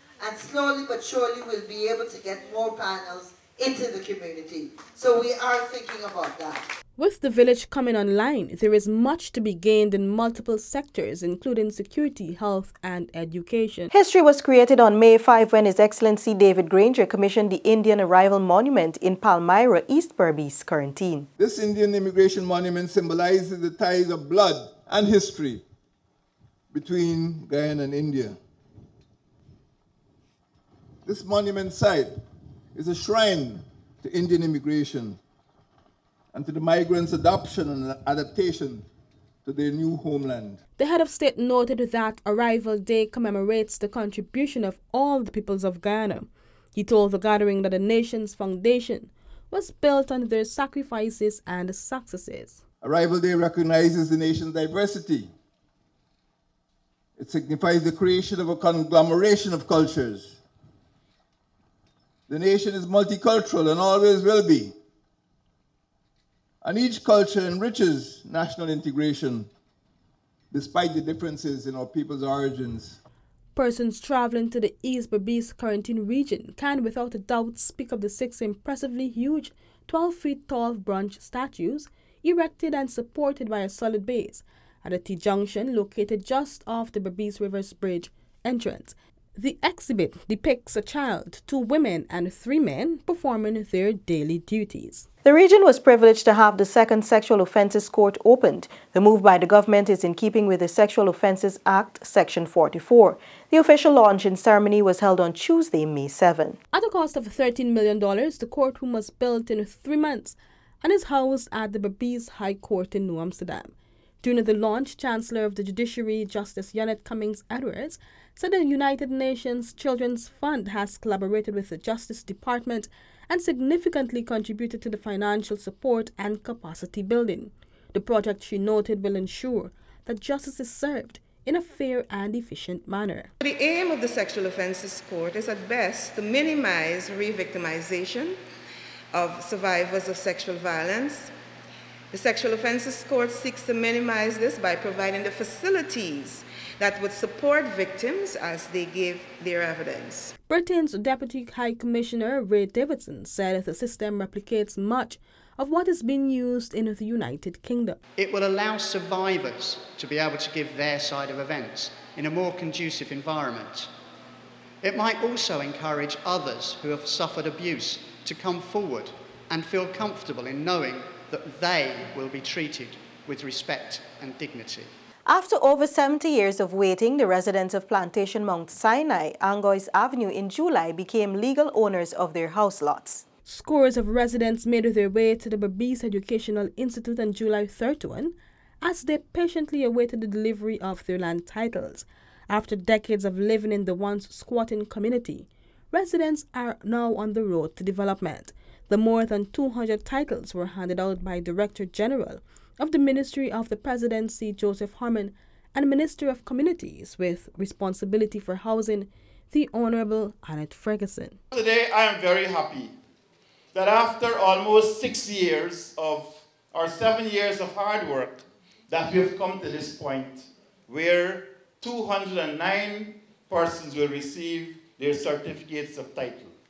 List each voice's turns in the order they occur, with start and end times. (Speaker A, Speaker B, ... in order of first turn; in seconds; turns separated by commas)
Speaker A: 0.2-6.6, Speaker B: 7.0-13.9, Speaker C: 13.9-21.3, Speaker D: 21.4-25.6, Speaker D: 26.7-28.4, Speaker D: 31.1-32.1, Speaker D: 32.8-35.2, Speaker D: 36.3-38.9, Speaker D: 39.5-40.6, Speaker B: 40.8-52.6, Speaker D: 52.8-55.3, Speaker D: 57.2-60.4, Speaker D: 62.3-64.7, Speaker D: 66.6-69.5, Speaker D: 70.5-73.0, Speaker B: 73.5-95.1, Speaker C: 95.2-106.6, Speaker B: 106.7-133.3, Speaker E: 133.4-138.4, Speaker E: 139.1-141.3, Speaker E: 142.1-150.3, Speaker B: 150.5-158.0, Speaker F: 158.2-163.9, Speaker F: 164.8-174.9, Speaker C: 175.3-183.2, Speaker B: 183.4-211.4, Speaker G: 211.5-212.9, Speaker G: 213.7-226.5